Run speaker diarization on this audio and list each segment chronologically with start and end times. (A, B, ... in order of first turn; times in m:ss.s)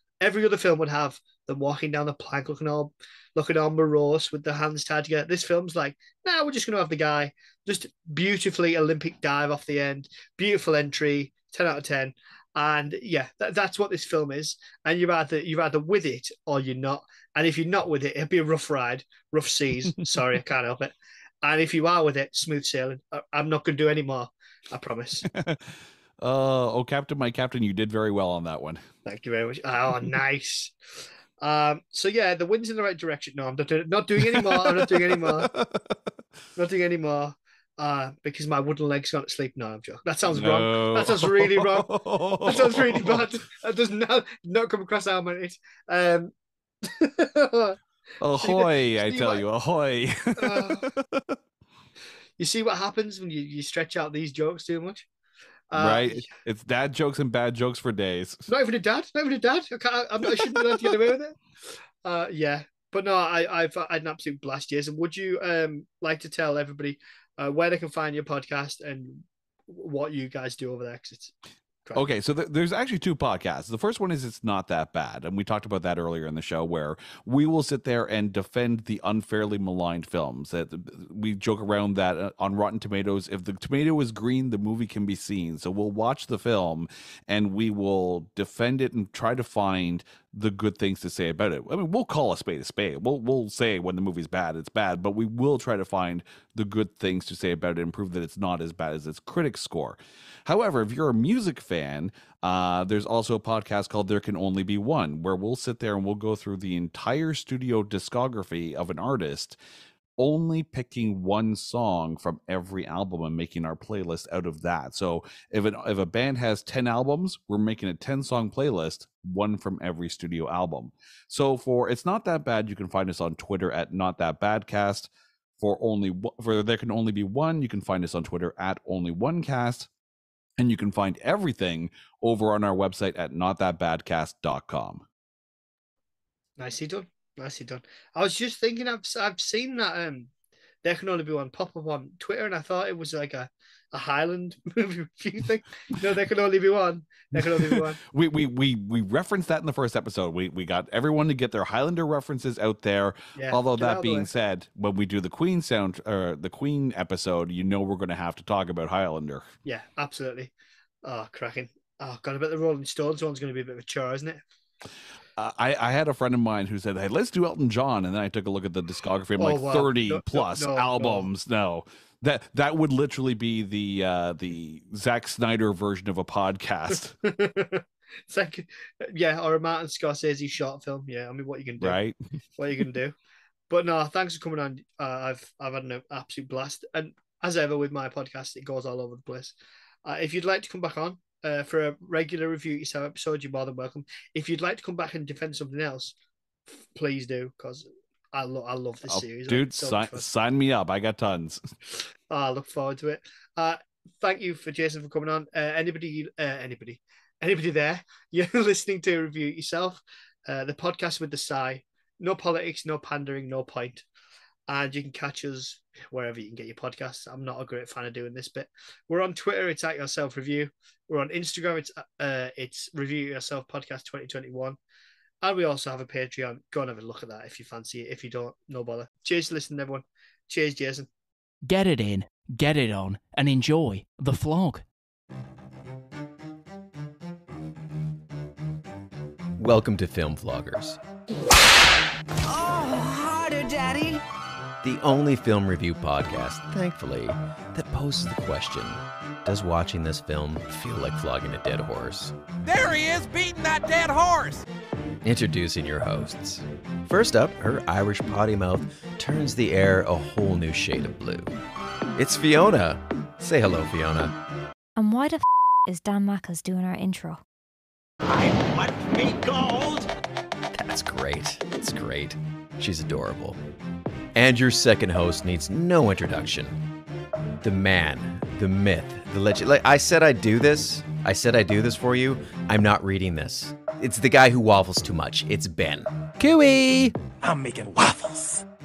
0:00.2-0:25.3 A
0:25.3-0:28.8 B
0:29.1-0:30.7 A
0:31.4-0:35.5 A
0:34.2-0:36.0 B
0:36.6-0:41.9 A
0:40.3-0:43.3 B
0:42.4-0:46.3 A
0:46.8-0:47.8 A
0:48.2-0:51.4 B
0:48.4-0:49.4 A
0:50.4-0:50.9 A
0:52.4-0:55.1 A
0:55.7-0:56.3 A
0:55.7-0:58.5 B
0:58.5-1:01.4 A
1:00.2-1:01.0 B
1:02.0-1:11.3 A
1:12.0-1:49.6 B
1:50.2-2:09.9 B
2:10.6-2:15.0 B
2:16.6-2:20.3 A
2:20.8-2:28.0 A
2:27.4-2:39.5 B
2:33.4-2:34.3 A
2:39.6-2:40.5 A
2:41.0-2:44.4 A
2:45.4-2:57.2 B
2:49.4-2:51.3 A
2:57.2-3:02.0 A
3:01.8-3:02.2 B
3:02.6-3:03.2 A
3:03.7-3:16.2 A
3:16.7-3:20.3 A
3:19.1-3:21.7 B
3:22.3-3:34.1 A
3:34.7-3:44.8 A
3:45.4-3:51.1 A
3:51.6-3:54.8 C
3:59.6-4:01.0 D
4:02.4-4:04.2 E
4:04.8-4:12.4 D
4:12.7-4:14.6 E
4:15.2-4:21.6 D
4:22.2-4:24.4 D
4:25.0-4:27.4 F
4:28.2-4:30.1 E
4:30.7-4:33.6 D
4:34.4-4:36.8 D
4:37.6-4:46.1 D
4:46.4-4:48.6 E